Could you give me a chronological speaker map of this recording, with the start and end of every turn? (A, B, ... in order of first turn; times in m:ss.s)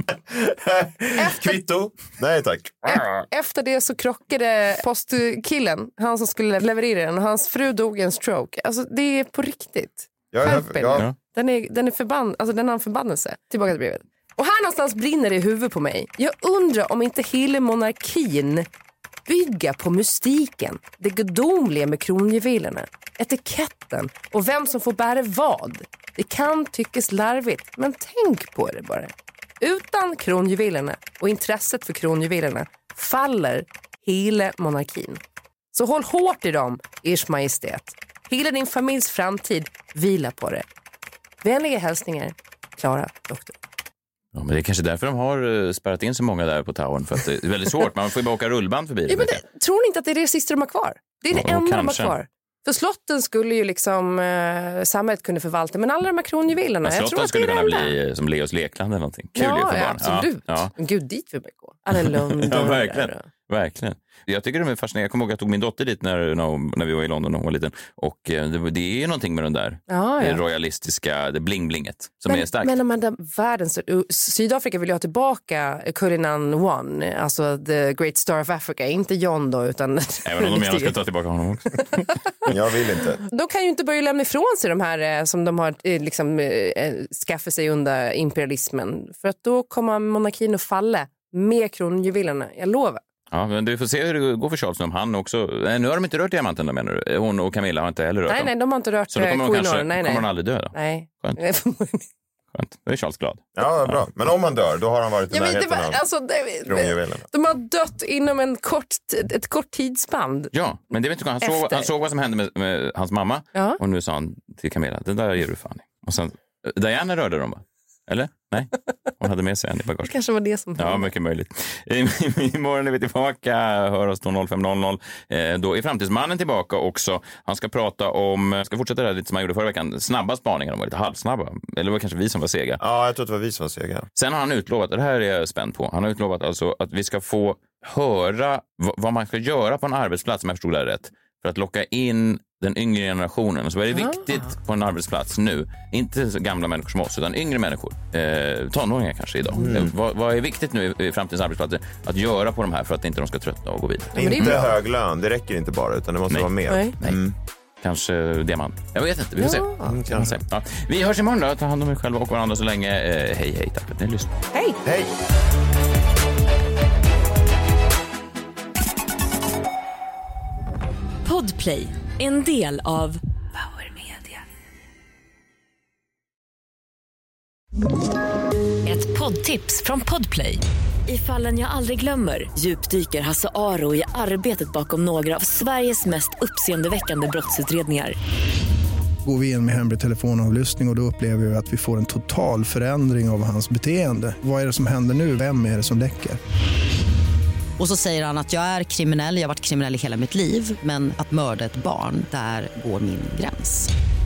0:00.3-0:03.2 A
0:01.2-0:01.6 B
0:02.9-0:18.7 B
0:10.3-0:11.1 A
0:19.3-0:35.2 B
0:35.7-0:40.6 B
0:41.4-0:43.6 B
0:44.3-0:49.4 C
0:49.1-0:58.0 B
0:51.3-0:52.2 C
0:56.8-1:00.7 C
0:59.4-1:03.3 B
1:02.0-1:12.8 C
1:09.9-1:10.4 B
1:12.3-1:21.0 B
1:20.2-1:22.2 C
1:22.5-1:23.2 A
1:23.2-1:33.0 B
1:33.3-1:38.5 C
1:38.3-1:42.1 B
1:39.1-1:41.4 C
1:42.5-1:44.0 C
1:43.6-1:46.0 A
1:45.3-1:50.5 B
1:46.7-1:47.3 A
1:50.5-2:00.2 C
1:51.4-1:51.9 B
2:00.0-2:01.1 B
2:00.8-2:12.8 C
2:12.8-2:14.1 A
2:14.2-2:34.6 C
2:23.9-2:24.2 B
2:29.6-2:29.9 A
2:34.2-2:37.4 A
2:34.2-2:34.7 B
2:36.3-2:37.2 C
2:36.7-2:37.0 B
2:37.8-2:44.3 C
2:39.4-2:39.9 B
2:39.9-2:40.4 A
2:44.8-2:45.1 A
2:51.2-2:54.4 D
2:58.8-3:08.2 D
3:09.2-3:16.4 E
3:17.8-3:23.9 F